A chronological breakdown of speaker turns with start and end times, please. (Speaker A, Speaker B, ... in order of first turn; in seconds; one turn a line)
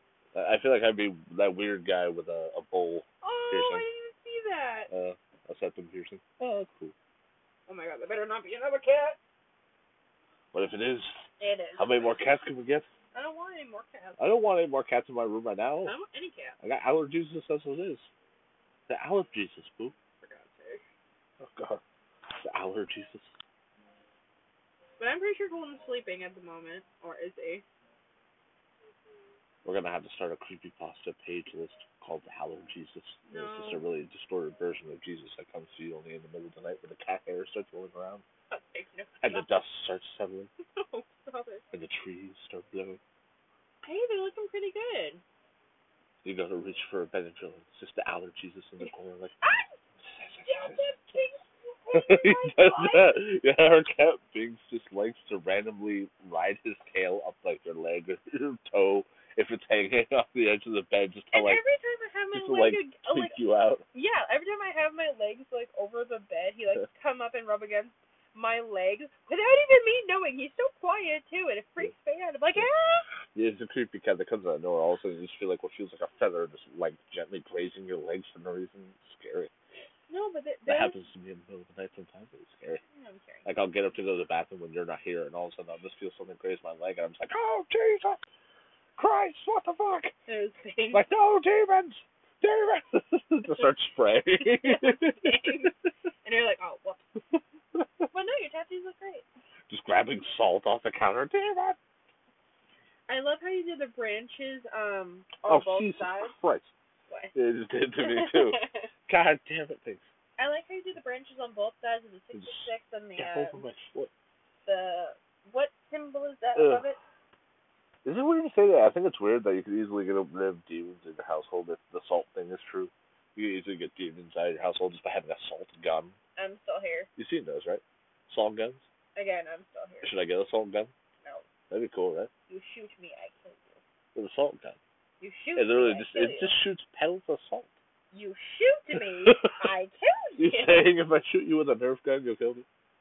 Speaker A: 0.3-3.9
Speaker B: 3.2-4.9
Speaker A: 4.9-6.9
Speaker B: 7.7-9.2
Speaker A: 10.5-11.3
Speaker B: 11.4-12.2
Speaker A: 11.8-12.8
Speaker B: 13.1-14.3
Speaker A: 14.2-15.9
Speaker B: 15.8-16.6
Speaker A: 16.6-18.1
Speaker A: 18.9-19.9
Speaker B: 20.2-20.8
Speaker A: 21.4-21.8
Speaker A: 22.3-23.3
Speaker B: 25.0-27.6
Speaker A: 29.6-38.2
Speaker B: 33.3-33.8
Speaker B: 38.5-39.5
Speaker A: 39.2-40.5
Speaker B: 40.7-41.6
Speaker A: 41.7-43.0
Speaker B: 43.8-45.2
Speaker A: 46.2-49.4
Speaker B: 49.4-49.7
Speaker A: 50.0-50.9
Speaker B: 50.4-53.2
Speaker A: 51.9-61.6
Speaker B: 61.3-63.4
Speaker A: 62.3-63.8
Speaker B: 63.9-73.0
Speaker A: 73.3-79.5
Speaker B: 80.1-81.0
Speaker A: 80.7-82.8
Speaker B: 82.9-83.5
Speaker A: 83.4-88.2
Speaker A: 89.0-90.1
Speaker B: 90.3-91.0
Speaker A: 90.9-95.7
Speaker B: 94.4-95.7
Speaker B: 96.2-97.0
Speaker B: 98.1-99.2
Speaker A: 99.7-101.8
Speaker B: 103.1-106.3
Speaker A: 105.5-106.7
Speaker B: 107.1-107.3
Speaker A: 107.3-110.0
Speaker B: 108.0-108.9
Speaker B: 110.4-113.6
Speaker A: 112.3-114.1
Speaker B: 114.7-117.0
Speaker A: 116.5-116.9
Speaker A: 118.0-126.2
Speaker B: 126.3-127.1
Speaker A: 127.2-128.9
Speaker B: 129.1-130.2
Speaker A: 130.0-130.9
Speaker A: 131.7-132.3
Speaker B: 132.5-133.8
Speaker A: 134.1-134.8
Speaker B: 135.2-136.6
Speaker A: 135.5-137.7
Speaker B: 138.1-140.9
Speaker A: 139.2-139.5
Speaker A: 140.4-142.7